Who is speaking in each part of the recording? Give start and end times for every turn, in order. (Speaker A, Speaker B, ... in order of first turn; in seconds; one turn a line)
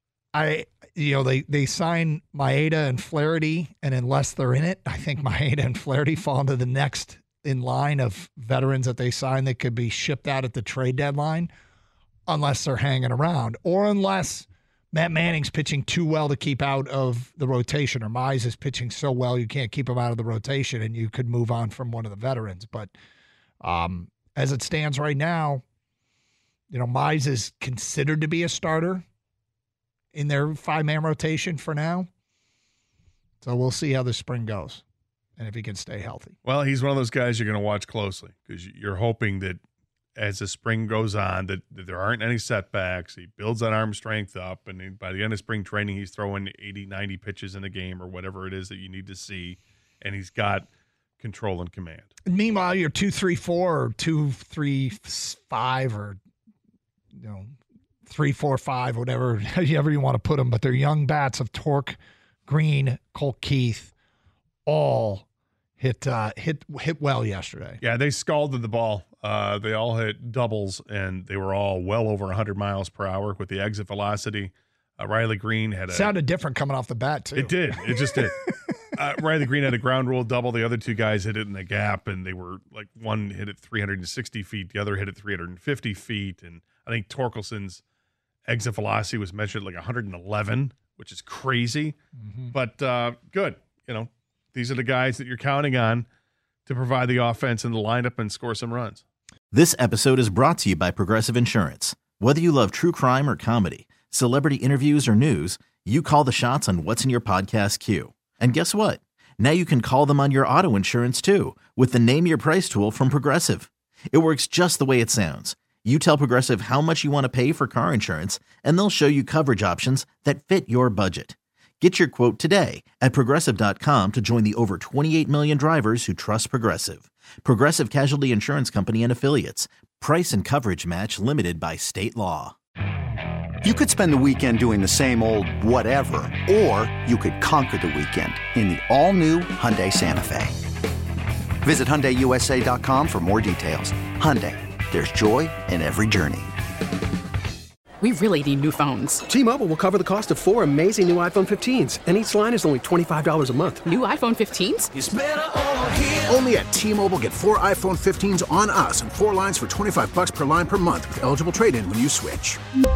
Speaker A: 0.3-11.5
Speaker A: 12.3-22.9
Speaker A: 23.6-25.6
Speaker A: 26.7-29.0
Speaker A: 30.1-32.1
Speaker A: 33.4-34.8
Speaker A: 35.4-36.4
Speaker B: 36.4-39.6
Speaker B: 40.1-50.7
Speaker B: 51.2-52.1
Speaker A: 52.2-56.2
Speaker A: 57.2-57.5
Speaker A: 58.0-63.9
Speaker A: 64.7-65.2
Speaker A: 65.8-67.8
Speaker B: 67.8-76.2
Speaker A: 75.9-78.1
Speaker B: 77.3-78.4
Speaker B: 79.0-87.8
Speaker B: 88.5-92.0
Speaker B: 92.5-96.1
Speaker B: 96.7-99.0
Speaker C: 99.5-132.5
Speaker D: 133.6-140.6
Speaker D: 141.6-146.5
Speaker E: 148.0-149.2
Speaker F: 149.2-153.9
Speaker E: 153.8-154.9
Speaker G: 155.0-155.3
Speaker G: 155.9-162.6